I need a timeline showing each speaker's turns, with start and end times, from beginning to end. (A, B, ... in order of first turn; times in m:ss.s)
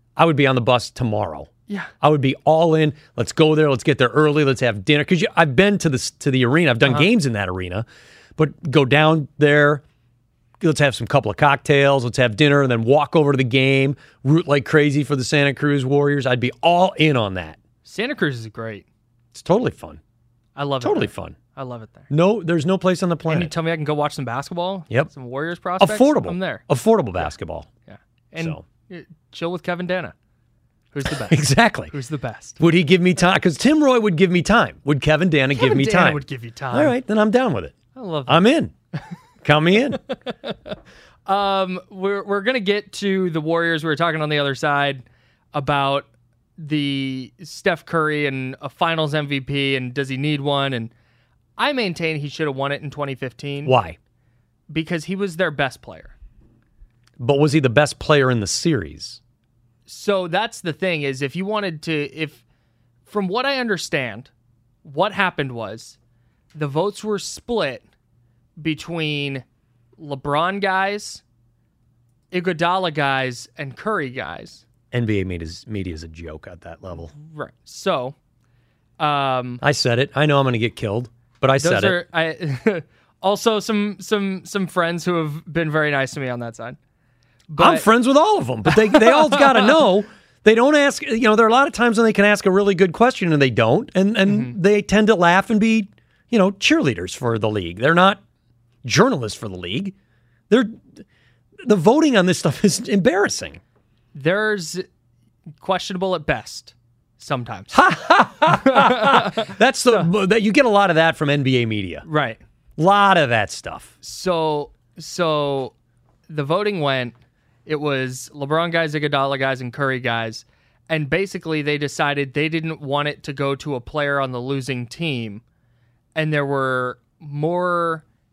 0:00.2-0:01.5 A
0:02.0-0:07.8 A
0:08.4-0:09.8 A
0:10.6-0:17.6 A
0:17.8-0:18.8 B
0:19.3-0:20.0 A
0:20.6-0:22.1 B
0:20.8-0:21.4 A
0:22.1-0:23.5 A
0:23.3-0:26.6 B
0:25.8-0:27.7 A
0:27.9-0:30.1 B
0:28.4-0:28.6 A
0:30.9-0:32.6 B
0:31.0-0:31.9 A
0:32.6-0:37.8 A
0:35.5-0:37.0 B
0:37.9-0:38.5 B
0:38.3-0:38.7 A
0:39.4-0:40.0 A
0:40.1-0:40.7 B
0:41.2-0:46.1 B
0:46.6-0:50.9 B
0:51.6-0:53.7 B
0:53.6-0:54.0 A
0:54.7-0:56.1 B
0:57.2-0:59.2 A
0:59.9-1:02.4 B
1:03.1-1:04.3 B
1:04.8-1:06.0 B
1:06.5-1:07.8 B
1:08.6-1:09.4 B
1:10.0-1:11.2 B
1:12.3-1:14.6 B
1:14.9-1:17.1 A
1:16.9-1:18.1 B
1:19.0-1:19.6 B
1:19.6-1:22.0 A
1:21.6-1:26.8 B
1:27.5-1:27.9 B
1:27.6-1:38.2 A
1:28.7-1:29.8 B
1:34.2-1:34.5 B
1:38.8-1:39.9 A
1:40.5-1:41.0 A
1:41.6-1:43.6 A
1:44.1-1:44.8 B
1:45.6-1:47.8 B
1:47.7-1:52.0 A
1:48.5-1:50.1 B
1:52.0-1:52.4 B
1:52.8-1:53.9 A
1:54.0-1:55.7 B
1:56.3-1:57.1 B
1:57.6-2:05.4 B
2:06.1-2:08.0 B